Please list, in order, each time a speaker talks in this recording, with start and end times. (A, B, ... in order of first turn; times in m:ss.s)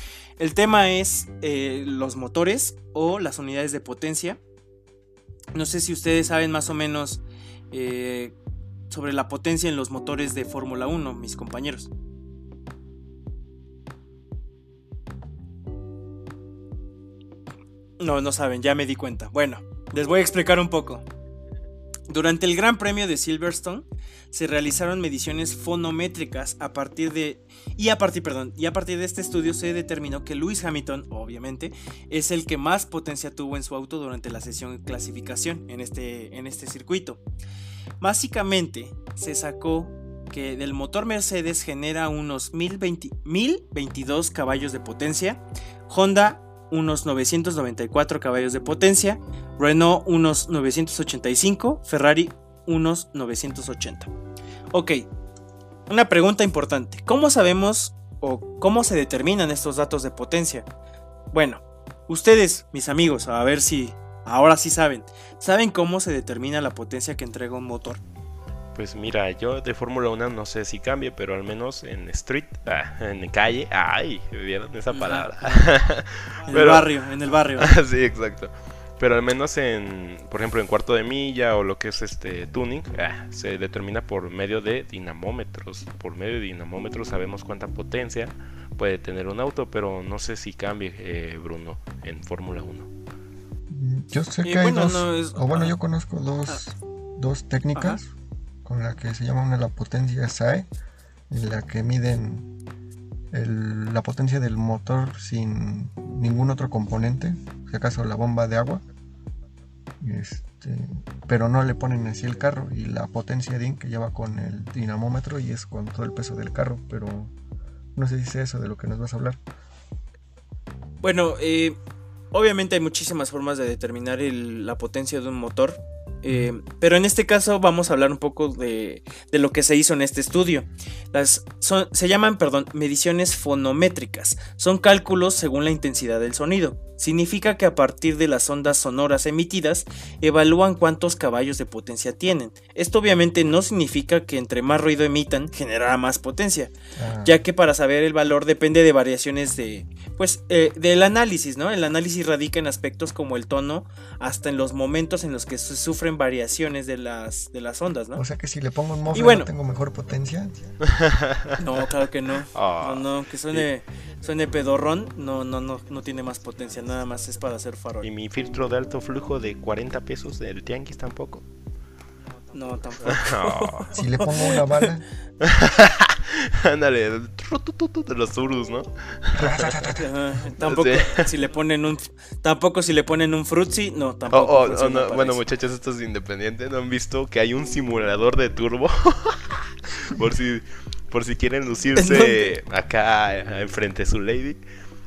0:00.4-0:04.4 A
0:05.5-0:08.3 A
0:08.9-0:11.9 A
0:18.0-0:21.0 A
0:22.1-0:37.2 A
0:38.0-0:54.1 A
0:54.7-0:55.1 A
0:55.9-1:00.6 A
1:01.3-1:08.0 A
1:08.7-1:16.9 B
1:14.9-1:15.7 A
1:16.5-1:17.7 A
1:17.6-1:32.9 B
1:33.7-1:38.1 C
1:34.4-1:35.8 A
1:37.7-1:38.0 A
1:38.6-1:40.7 C
1:41.3-1:42.5 C
1:43.3-1:48.8 C
1:50.0-1:57.3 C
1:57.9-1:59.4 C
2:01.0-2:01.8 A
2:02.3-2:26.7 A
2:27.0-2:27.4 C
2:27.2-2:38.2 A
2:38.2-2:40.6 C
2:39.1-2:39.5 A
2:40.8-2:41.6 B
2:41.6-2:48.1 A
2:42.5-2:43.6 B
2:48.0-2:51.4 B
2:52.5-2:54.9 A
2:53.1-2:53.9 B
2:53.9-2:55.0 C
2:55.4-3:00.0 B
2:59.3-3:00.1 C
2:59.9-3:05.4 A
3:00.6-3:01.3 B
3:04.3-3:14.6 B
3:12.0-3:12.5 A